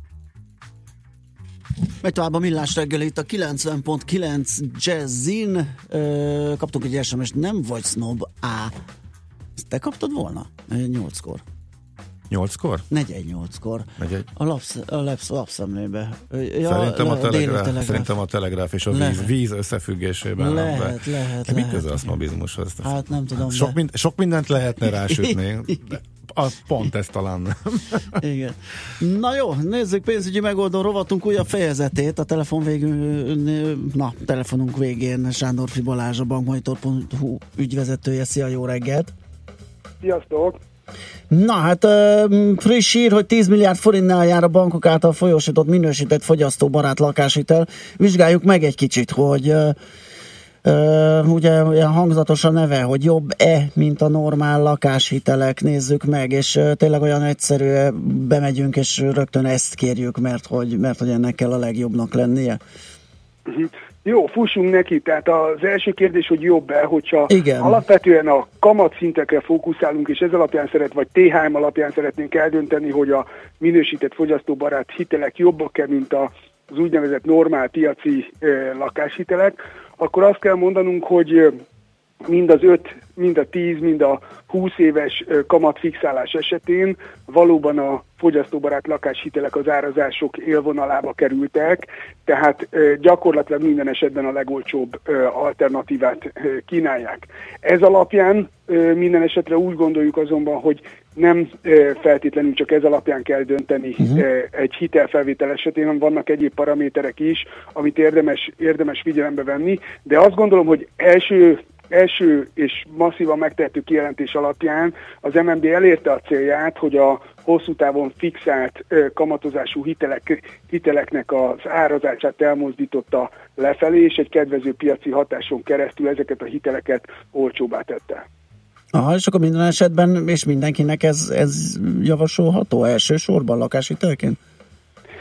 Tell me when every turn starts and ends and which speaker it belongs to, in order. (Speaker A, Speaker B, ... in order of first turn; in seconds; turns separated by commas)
Speaker A: 2.0-8.7, Speaker A: 9.6-11.4, Speaker B: 12.3-12.9, Speaker A: 12.9-18.1, Speaker B: 14.0-14.3, Speaker B: 16.6-28.0, Speaker A: 18.9-19.3, Speaker A: 20.4-22.1, Speaker A: 22.8-23.8, Speaker A: 24.8-25.8, Speaker A: 28.2-39.1, Speaker C: 40.0-40.6, Speaker A: 41.3-49.8, Speaker A: 50.6-62.6, Speaker C: 63.5-81.6, Speaker A: 67.3-67.8, Speaker C: 82.2-128.2, Speaker A: 128.9-134.4